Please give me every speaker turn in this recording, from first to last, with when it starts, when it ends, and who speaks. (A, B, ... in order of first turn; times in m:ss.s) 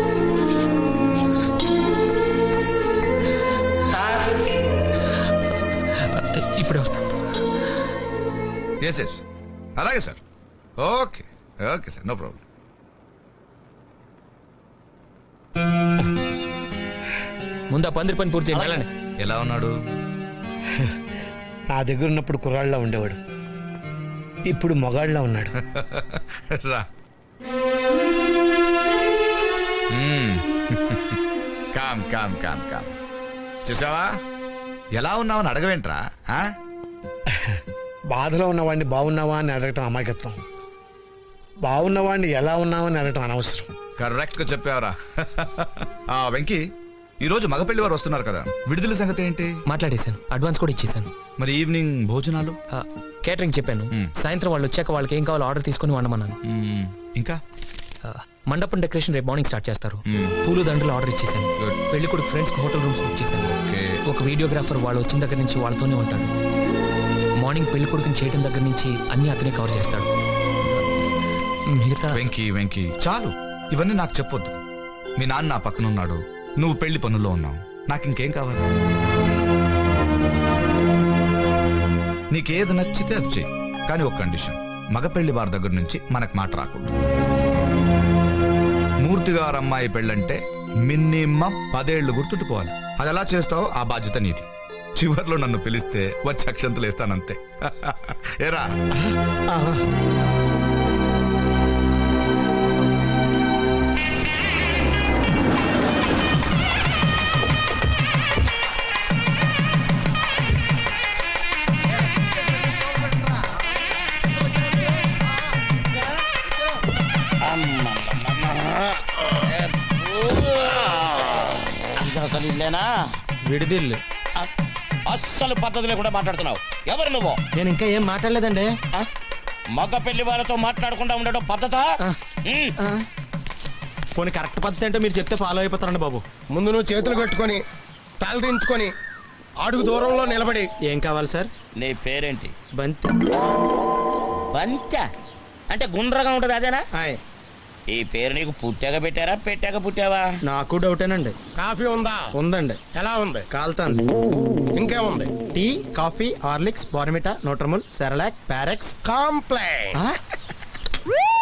0:06.2-0:07.0 A
0:08.8-0:09.2 B
0:09.8-0:10.2 B
0:10.8-0:12.4 B
0:17.7-0:18.9 A
0:19.2-0:19.7 B
0:21.7-0:23.2 C
0:24.5-0:25.5 C
0:25.7-0:26.8 B
0:29.9-0:31.2 B
0:31.7-0:32.9 B
0:33.6-0:34.1 B
0:35.0-0:36.5 B
0:38.1-0:40.4 C
0:41.6-0:43.7 C
0:44.0-0:46.6 B
0:47.2-0:49.5 B
0:49.7-0:51.1 A
0:51.4-0:52.6 B
0:52.7-0:56.4 A
0:56.5-0:57.4 B
0:58.1-1:03.5 A
1:00.1-1:00.3 B
1:03.6-1:03.8 B
1:04.1-1:06.3 A
1:07.4-1:10.1 A
1:11.8-1:12.2 A
1:12.1-1:14.6 B
1:15.2-1:18.6 B
1:22.3-1:26.9 B
1:29.0-1:38.8 B
1:39.5-1:39.8 C
1:57.5-1:58.7 D
2:00.3-2:00.8 D
2:02.1-2:02.8 D
2:03.5-2:04.0 E
2:05.1-2:07.4 D
2:07.6-2:08.7 E
2:09.7-2:11.9 D
2:14.1-2:16.2 E
2:16.5-2:17.6 F
2:18.2-2:18.9 F
2:19.6-2:20.7 F
2:20.8-2:21.5 E
2:21.8-2:22.5 D
2:22.8-2:23.1 E
2:24.5-2:25.0 D
2:25.7-2:26.8 D
2:27.9-2:30.3 D
2:30.5-2:31.3 E
2:31.6-2:32.2 F
2:32.3-2:32.8 E
2:32.9-2:33.4 F
2:33.5-2:34.0 E
2:34.8-2:35.3 F
2:35.5-2:38.9 E
2:39.0-2:39.9 F